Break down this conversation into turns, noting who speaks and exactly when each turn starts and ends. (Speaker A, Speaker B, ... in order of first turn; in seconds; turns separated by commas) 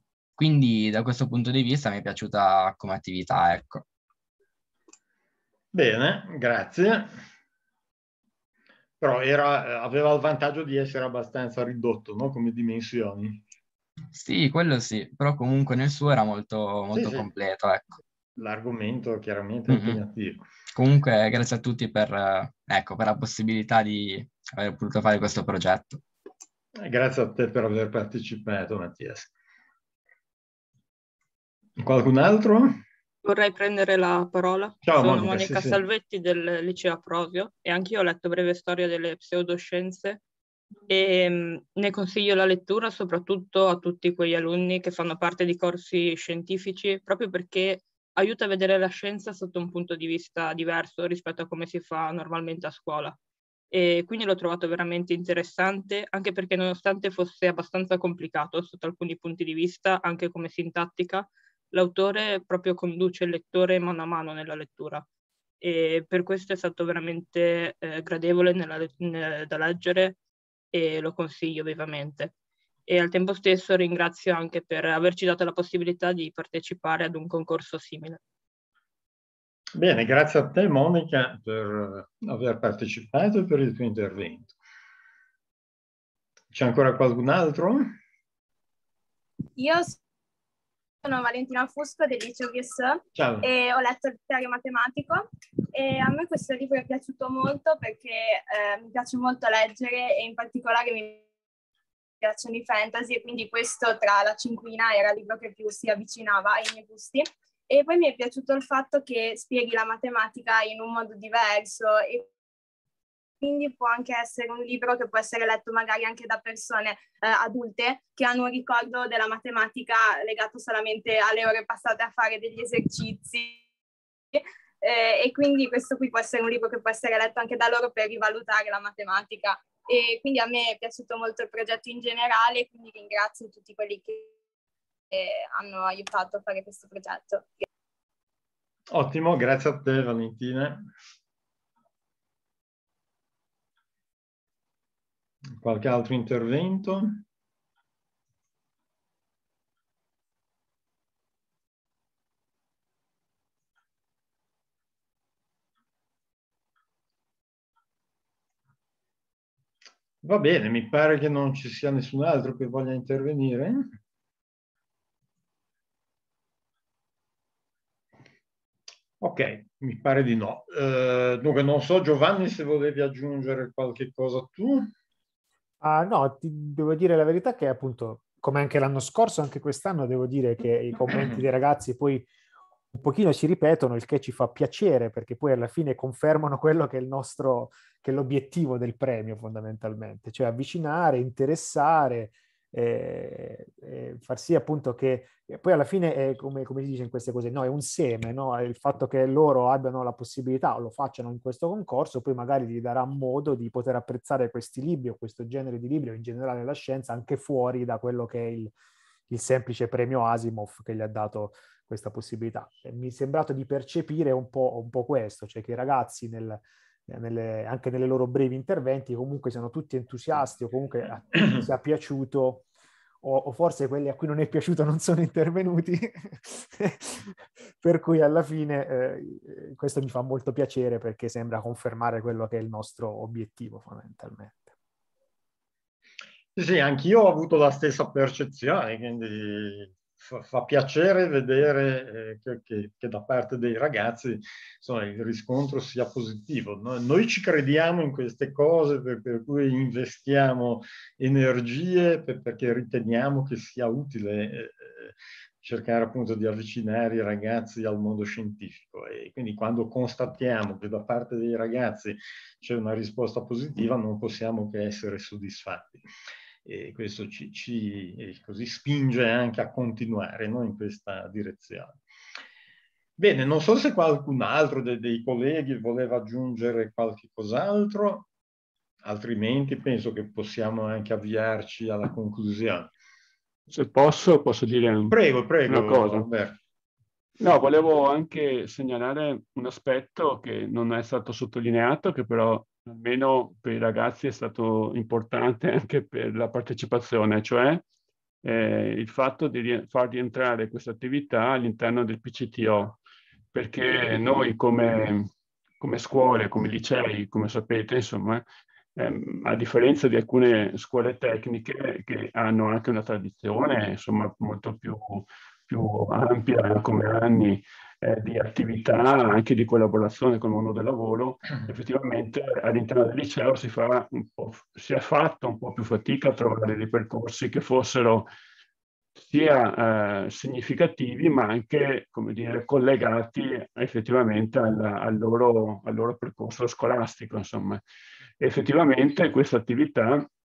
Speaker A: 0.4-3.8, Speaker B: 5.7-7.1, Speaker B: 9.0-13.4, Speaker A: 14.1-18.0, Speaker B: 16.9-17.3, Speaker B: 18.4-20.4, Speaker A: 19.7-20.0, Speaker A: 20.8-26.0, Speaker B: 26.8-29.3, Speaker B: 31.8-32.8, Speaker C: 33.2-40.2, Speaker B: 34.8-35.8, Speaker C: 40.9-53.2, Speaker C: 53.7-65.1, Speaker C: 65.6-70.2, Speaker C: 70.7-72.3, Speaker C: 72.9-78.2, Speaker B: 79.8-84.5, Speaker B: 86.5-88.0, Speaker D: 89.6-90.0, Speaker D: 91.0-101.2, Speaker B: 93.2-93.5, Speaker D: 102.2-112.3, Speaker D: 113.4-123.6, Speaker D: 124.3-134.3, Speaker D: 135.1-137.7, Speaker B: 138.9-140.9, Speaker B: 145.6-147.2, Speaker B: 160.2-163.9, Speaker B: 169.2-174.9, Speaker E: 175.8-182.3, Speaker B: 181.1-181.4, Speaker E: 182.9-208.7, Speaker E: 209.3-222.7, Speaker B: 221.3-221.7, Speaker E: 223.2-234.7, Speaker B: 236.6-266.0, Speaker B: 266.6-272.0, Speaker B: 273.2-278.3, Speaker B: 279.0-282.9, Speaker F: 283.7-285.2, Speaker B: 285.1-286.6, Speaker F: 285.7-286.3, Speaker F: 287.4-297.9, Speaker F: 298.4-303.0, Speaker F: 303.5-305.3, Speaker F: 305.8-308.4, Speaker F: 309.0-328.3, Speaker F: 329.2-337.8, Speaker F: 338.4-340.3